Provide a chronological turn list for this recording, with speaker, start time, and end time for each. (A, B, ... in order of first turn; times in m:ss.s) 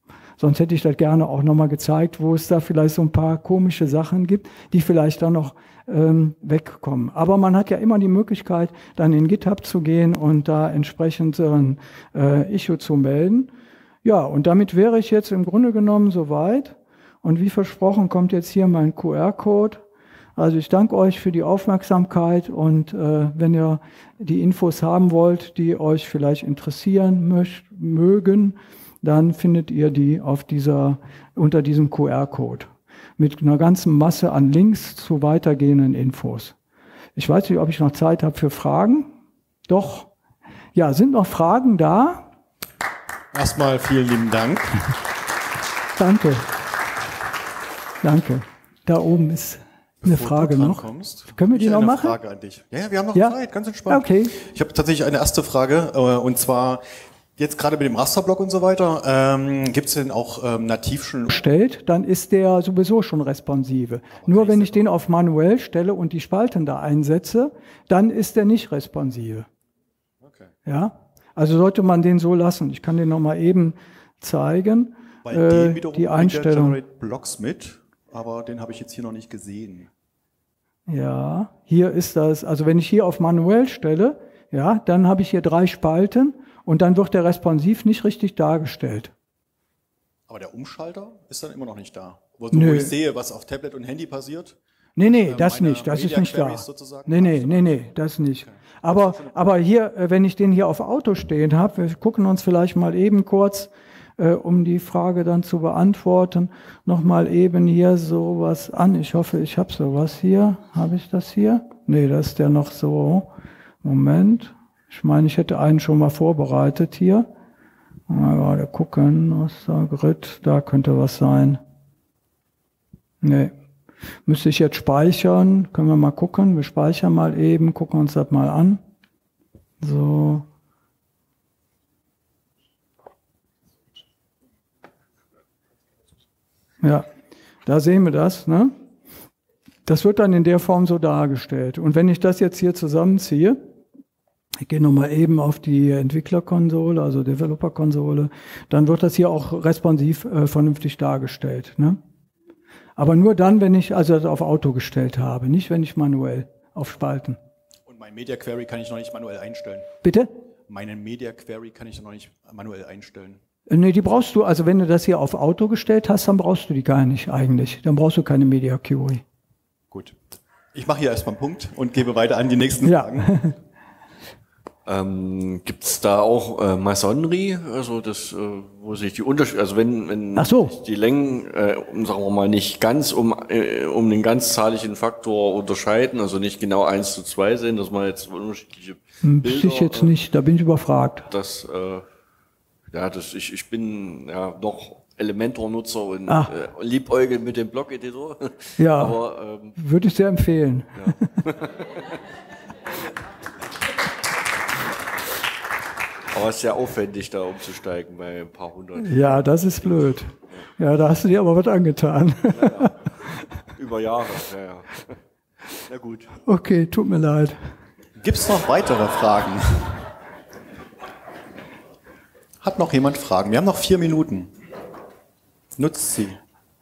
0:00.4-0:13.5 A
0:14.0-0:19.8 A
0:20.4-0:36.6 A
0:37.2-0:39.1 A
0:39.7-0:40.1 A
0:40.8-0:42.3 A
0:43.3-0:44.9 B
0:46.0-0:46.5 A
0:48.0-0:52.2 A
0:50.0-0:56.8 B
0:53.9-0:54.4 A
0:57.4-1:01.3 B
1:01.3-1:09.5 A
1:04.2-1:04.8 B
1:10.2-1:10.5 B
1:10.7-1:16.8 A
1:15.2-1:19.9 B
1:20.9-1:29.1 A
1:30.3-1:37.9 B
1:32.5-1:33.0 A
1:35.0-1:53.3 A
1:38.4-1:39.4 B
1:53.8-1:57.3 A
1:58.1-2:01.6 A
2:03.2-2:03.5 A
2:04.3-2:08.8 A
2:09.8-2:10.5 A
2:16.8-2:17.1 A
2:17.7-2:18.7 A
2:19.9-2:23.6 A
2:24.6-2:32.0 A
2:33.0-2:37.4 A
2:37.9-2:39.9 B
2:40.0-2:40.3 A
2:40.7-2:43.4 B
2:43.7-2:49.2 A
2:49.9-2:50.2 B
2:50.7-2:53.3 B
2:52.8-2:53.6 A
2:54.9-3:10.1 C
3:00.4-3:00.8 A
3:09.2-3:11.3 A
3:11.3-3:12.0 C
3:12.9-3:19.8 C
3:16.3-3:16.5 A
3:18.8-3:19.2 A
3:19.8-3:21.3 A
3:21.0-3:21.8 C
3:26.3-3:29.4 C
3:29.0-3:32.9 A
3:32.5-3:33.1 C
3:33.7-3:35.2 C
3:35.8-3:36.3 C
3:36.5-3:37.6 A
3:38.2-3:40.0 B
3:42.6-3:44.5 B
3:45.8-3:46.4 B